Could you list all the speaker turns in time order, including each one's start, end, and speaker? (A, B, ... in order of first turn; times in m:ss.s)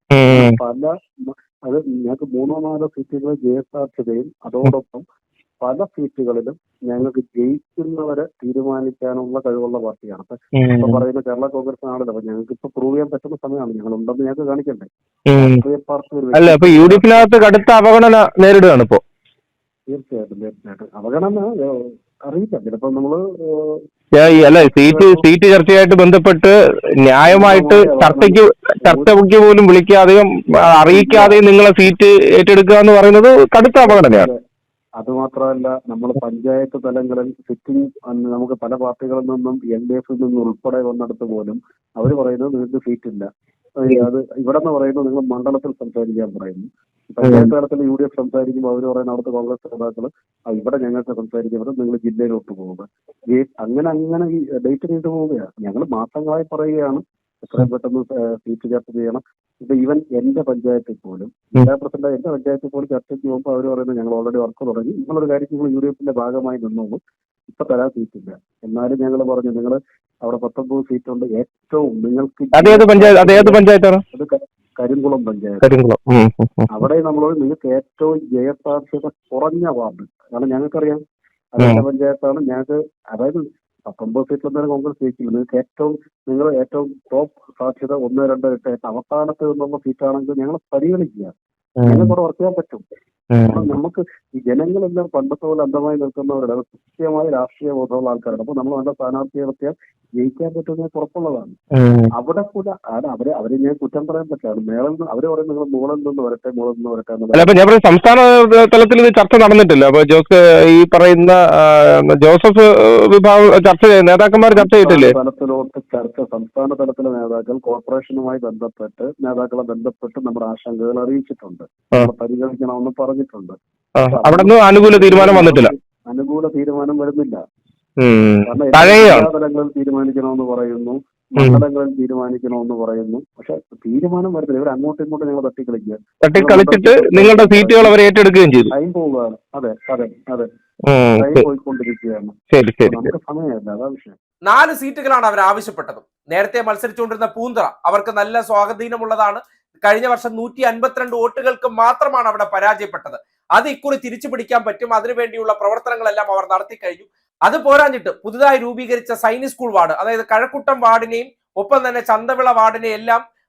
0:00.2-0:00.6 A
0:00.4-0:05.0 B
0:05.6-0:10.4 B
0:10.6-0:11.0 A
0:10.9-0:14.9 B
0:15.3-0:15.6 A
0:15.4-0:17.2 B
0:16.3-0:19.0 A
0:19.9-0:23.8 B
0:24.2-0:34.3 A
0:24.5-0:25.1 B
0:27.3-0:29.1 B
0:30.8-0:31.3 B
0:34.0-0:34.2 B
0:35.0-0:43.3 B
0:43.8-1:13.6 B
0:47.2-0:47.5 A
1:12.6-1:14.0 A
1:14.2-1:15.6 B
1:15.6-1:16.8 A
1:16.7-1:21.0 B
1:21.6-1:31.3 B
1:21.6-1:21.8 A
1:31.8-1:32.1 A
1:31.9-1:32.8 B
1:33.3-1:33.7 A
1:33.5-1:41.6 B
1:41.8-1:42.1 A
1:42.2-1:47.4 B
1:47.3-1:55.1 A
1:54.6-2:03.6 B
2:04.0-2:05.7 A
2:04.1-2:07.4 B
2:08.0-2:09.3 A
2:08.5-2:17.9 B
2:16.3-2:18.7 A
2:18.8-2:20.5 B
2:20.9-2:21.4 A
2:21.2-2:22.3 B
2:22.5-2:23.1 A
2:22.9-2:24.2 B
2:24.5-2:43.2 C